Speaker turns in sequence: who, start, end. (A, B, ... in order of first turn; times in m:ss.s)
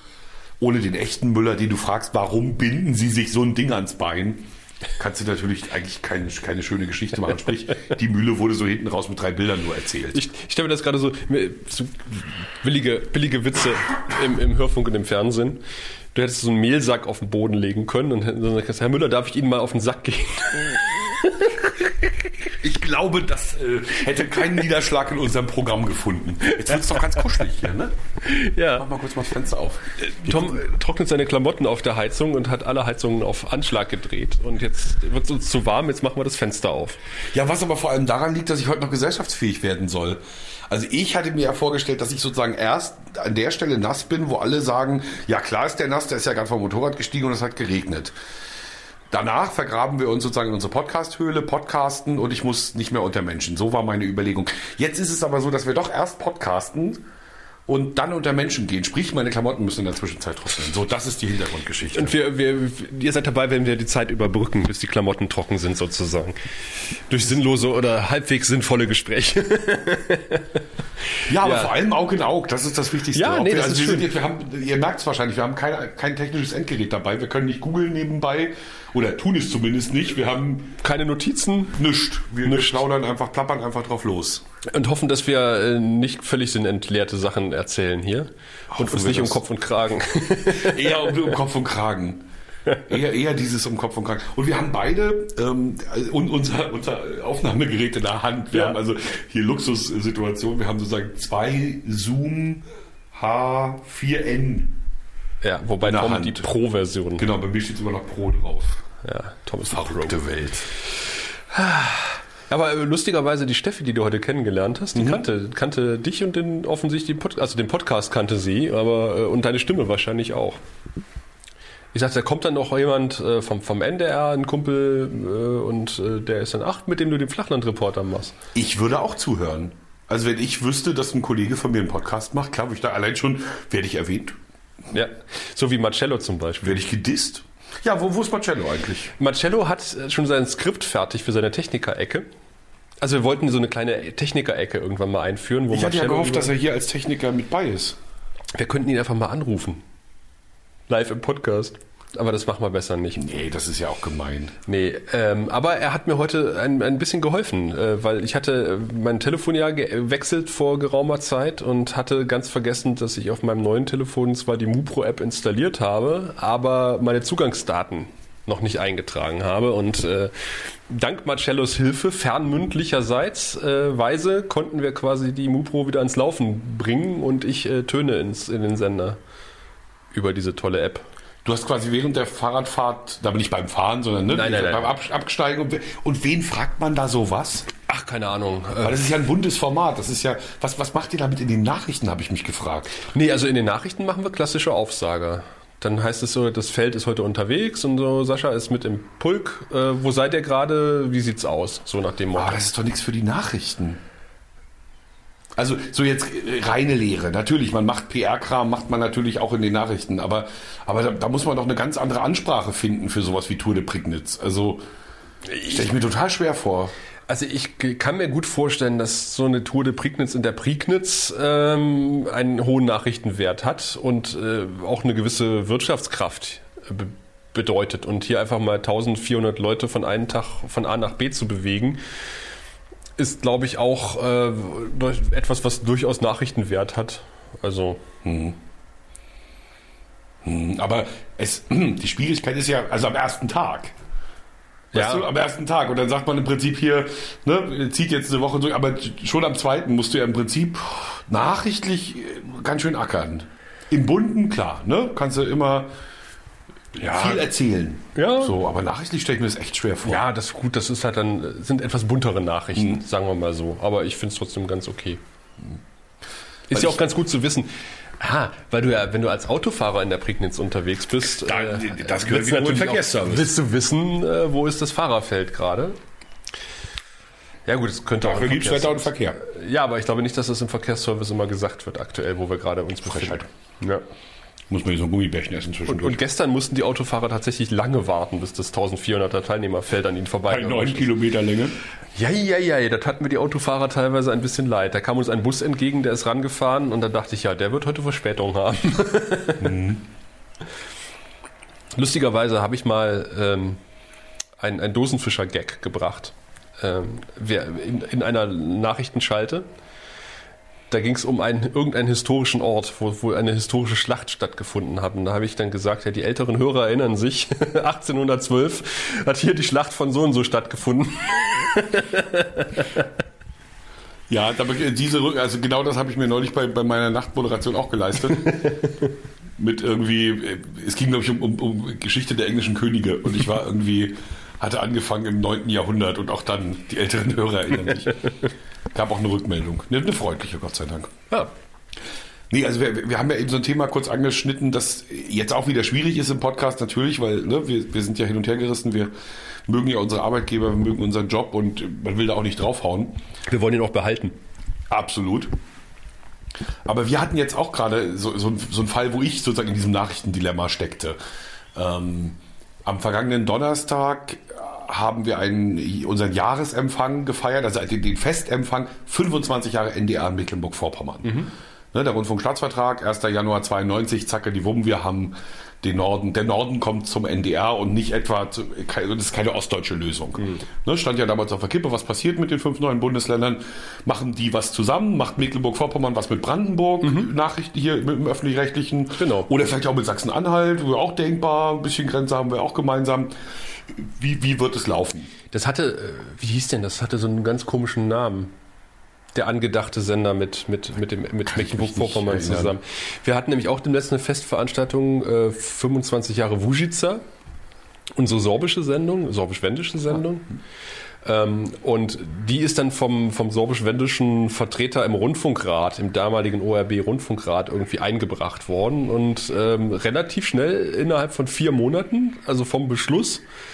0:00.6-0:10.2 A
0:10.1-0:15.6 B
0:16.1-0:22.3 B
0:22.6-0:27.9 A
0:28.2-0:28.9 B
0:28.8-0:30.6 A
0:30.0-0:37.0 B
0:37.3-0:48.1 A
0:49.1-0:57.0 A
0:57.7-1:02.1 A
1:01.9-1:06.4 B
1:07.0-1:10.6 B
1:11.2-1:11.7 B
1:11.3-1:20.8 A
1:13.1-1:14.1 B
1:20.8-1:21.8 B
1:21.7-1:24.4 A
1:22.4-1:22.8 B
1:24.7-1:31.2 B
1:28.7-1:29.4 A
1:30.4-1:32.2 A
1:32.8-1:44.8 A
1:38.5-1:38.8 B
1:45.4-1:47.3 B
1:45.8-1:46.5 A
1:47.2-1:48.8 A
1:49.0-1:50.2 B
1:49.7-1:50.7 A
1:51.5-2:00.6 B
1:54.9-1:55.2 A
2:01.9-2:08.4 B
2:08.5-2:14.4 A
2:14.9-2:16.8 B
2:16.6-2:19.1 A
2:19.2-2:22.3 B
2:23.0-2:26.5 B
2:25.7-2:28.0 A
2:28.5-2:29.8 B
2:30.9-2:33.2 B
2:33.2-2:34.6 A
2:34.6-2:50.3 B
2:50.9-2:59.2 B
3:00.1-3:01.0 B
3:01.4-3:07.7 A
3:04.3-3:04.9 B
3:07.9-3:09.0 B
3:08.8-3:12.9 A
3:13.0-3:22.6 B
3:22.3-3:24.0 A
3:25.5-3:34.8 A
3:35.5-3:35.9 B
3:35.7-3:36.9 A
3:37.3-3:52.0 B
3:53.2-3:58.0 B
3:58.2-3:58.6 A
4:00.4-4:03.9 A
4:04.9-4:05.3 B
4:04.9-4:15.9 A
4:16.9-4:20.2 A
4:17.0-4:17.4 B
4:18.1-4:18.6 B
4:20.0-4:25.2 B
4:26.7-4:36.0 B
4:26.7-4:27.0 A
4:31.2-4:33.5 A
4:37.6-4:44.0 B
4:38.2-4:39.4 A
4:43.0-4:43.5 A
4:44.7-4:46.2 A
4:45.8-4:51.1 B
4:50.5-4:51.8 A
4:52.2-4:59.8 B
4:59.6-5:00.0 A
5:01.9-5:03.8 B
5:04.6-5:09.7 B
5:10.9-5:23.1 B
5:24.3-5:28.8 A
5:28.4-5:29.1 B
5:29.6-5:38.4 A
5:38.9-5:41.1 A
5:42.5-5:49.1 A
5:49.7-5:53.2 A
5:53.5-5:54.4 B
5:54.9-5:55.5 A
5:56.8-6:01.2 A
6:01.7-6:11.4 A
6:11.2-6:11.5 B
6:11.9-6:33.3 A
6:20.4-6:20.7 B
6:27.0-6:27.3 B
6:29.1-6:29.5 B
6:33.8-6:35.3 A
6:35.5-6:38.5 B
6:39.3-6:47.2 B
6:41.4-6:42.8 A
6:48.1-6:50.5 B
6:51.2-7:03.4 B